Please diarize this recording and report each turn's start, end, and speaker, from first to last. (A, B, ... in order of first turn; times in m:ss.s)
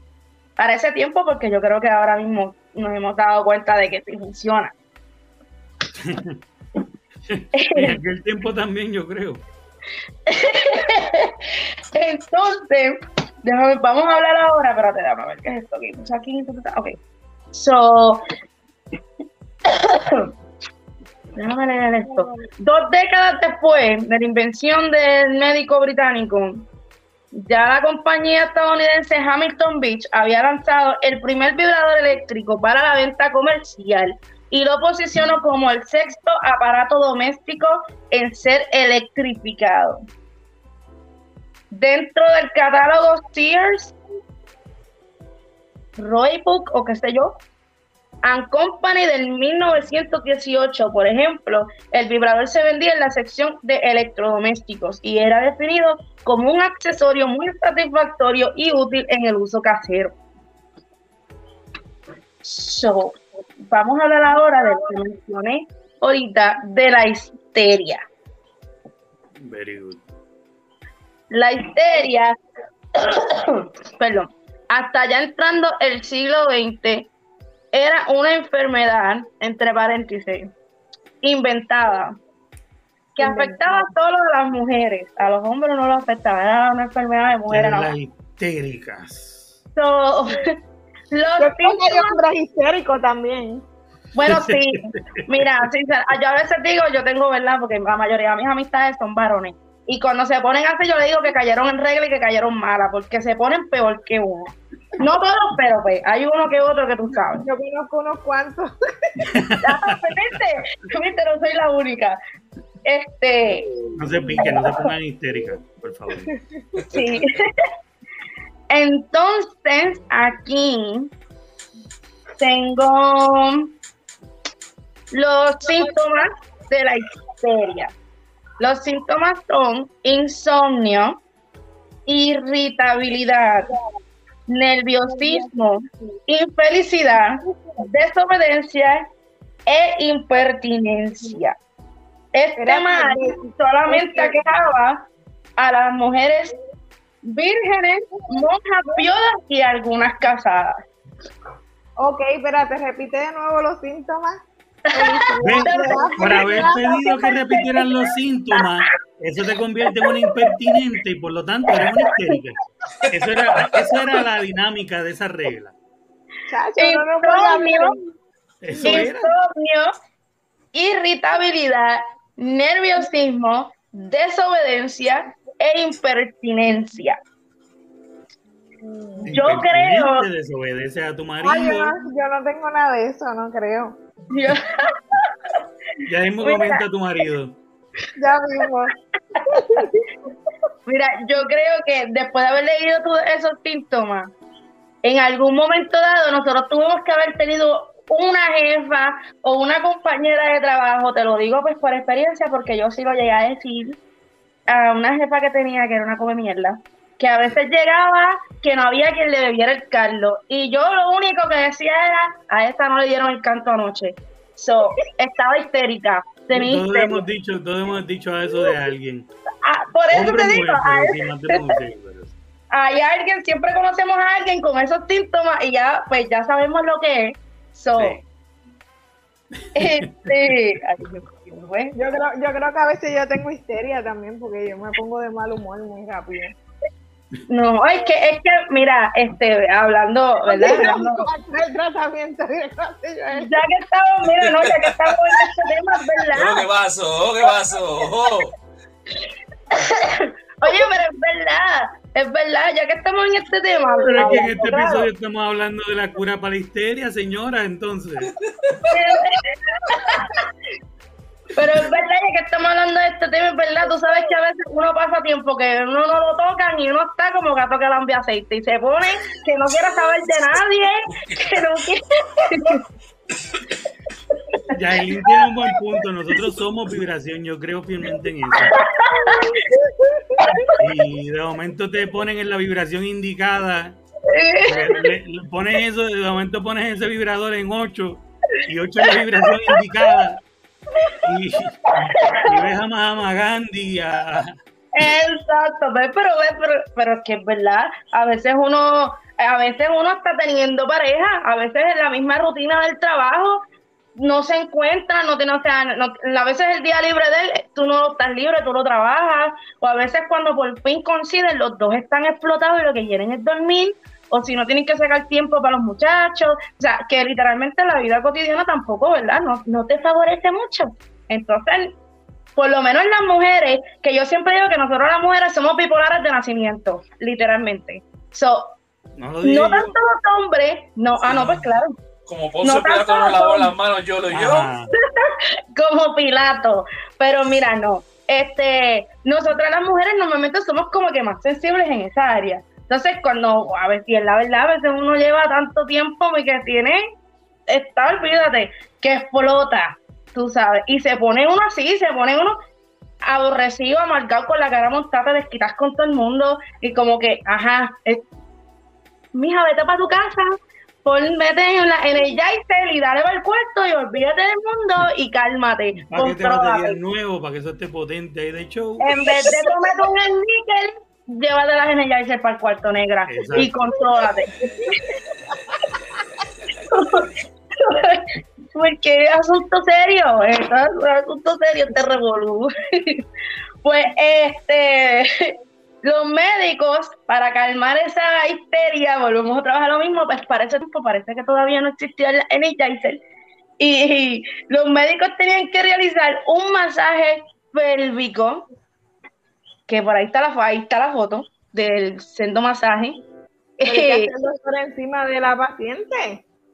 0:00.6-0:04.7 A
0:05.9-0:06.4 B
0:07.3-0:09.4 B
0:07.5-0:08.0 A
0:10.3-0:11.4 A
0:11.9-0:17.0 A
0:17.5-0:18.2 A
0:19.7-0:20.3 A
0:21.4-0:26.6 A
0:22.1-0:22.4 C
0:27.3-0:40.0 A
0:41.7-0:43.9 A
0:46.0-0:47.4 A
0:48.2-1:00.1 A
1:02.4-1:08.0 A
1:09.4-1:10.0 B
1:11.3-1:12.3 A
1:13.0-1:17.1 A
1:17.7-1:20.5 A
1:21.2-1:22.1 A
1:23.2-1:27.9 A
1:23.2-1:23.9 C
1:27.5-1:29.5 B
1:29.8-1:30.6 A
1:31.1-1:32.2 A
1:31.4-1:33.6 C
1:34.1-1:47.5 A
1:34.2-1:35.4 B
1:47.4-1:49.1 C
1:49.2-1:50.0 B
1:49.6-1:52.2 A
1:52.8-1:53.7 A
1:53.8-1:54.8 C
1:54.0-1:56.3 B
1:56.9-1:57.7 A
1:58.7-2:01.1 A
2:02.4-2:03.7 A
2:05.1-2:07.9 A
2:08.6-2:11.2 A
2:12.1-2:13.7 A
2:14.5-2:19.0 A
2:15.2-2:15.4 C
2:19.7-2:21.5 A
2:22.3-2:25.0 A
2:22.6-2:24.4 C
2:25.6-2:26.5 A
2:27.2-2:30.8 A
2:32.0-2:37.2 C
2:34.9-2:37.9 A
2:35.4-2:42.6 B
2:40.0-2:40.5 A
2:43.0-2:43.7 D
2:43.1-2:45.7 B
2:46.5-2:48.0 C
2:46.8-2:48.0 A
2:48.6-2:49.3 B
2:48.7-2:49.0 C
2:48.8-2:49.9 A
2:50.7-2:57.2 A
2:58.8-2:59.3 C
2:59.2-3:02.0 B
2:59.3-3:00.3 A
3:01.4-3:04.0 C
3:04.3-3:05.3 A
3:06.0-3:07.6 B
3:06.4-3:06.8 A
3:08.2-3:08.9 C
3:09.3-3:09.8 A
3:09.5-3:10.1 C
3:10.8-3:14.3 A
3:15.0-3:24.0 A
3:24.7-3:37.2 A
3:36.5-3:39.3 B
3:39.6-3:41.6 A
3:40.1-3:42.3 B
3:42.7-3:48.2 A
3:48.0-3:48.2 B
3:49.6-3:50.6 B
3:49.8-3:51.9 A
3:52.0-3:56.5 C
3:57.5-4:01.3 A
4:00.4-4:03.5 C
4:03.4-4:06.6 A
4:04.2-4:05.1 D
4:06.3-4:08.5 D
4:09.7-4:15.1 A
4:14.0-4:18.3 B
4:18.8-4:20.4 A
4:21.5-4:32.8 A
4:31.1-4:31.6 D
4:34.7-4:35.3 A
4:34.7-4:38.8 B
4:38.7-4:39.6 A
4:40.3-4:40.8 A
4:40.8-4:44.0 B
4:44.3-4:45.0 A
4:44.6-4:50.4 B
4:49.1-4:49.7 A
4:51.2-4:54.5 B
4:52.1-4:52.6 A
4:54.9-5:03.6 A
5:04.2-5:21.9 A
5:22.6-5:28.7 A
5:29.2-5:29.9 B
5:29.4-5:32.0 A
5:31.3-5:31.7 D
5:32.2-5:34.7 D
5:32.6-5:33.7 A
5:34.3-5:34.9 B
5:34.9-5:47.0 A
5:47.7-5:52.6 A
5:53.2-5:58.2 A
5:59.3-6:07.0 A
6:06.0-6:09.2 B
6:09.0-6:14.7 A
6:13.3-6:13.8 B
6:15.8-6:17.2 D
6:16.9-6:23.2 A
6:23.8-6:33.2 A
6:33.8-6:38.6 A
6:39.9-6:43.2 A
6:43.8-6:44.3 A
6:43.8-6:46.4 C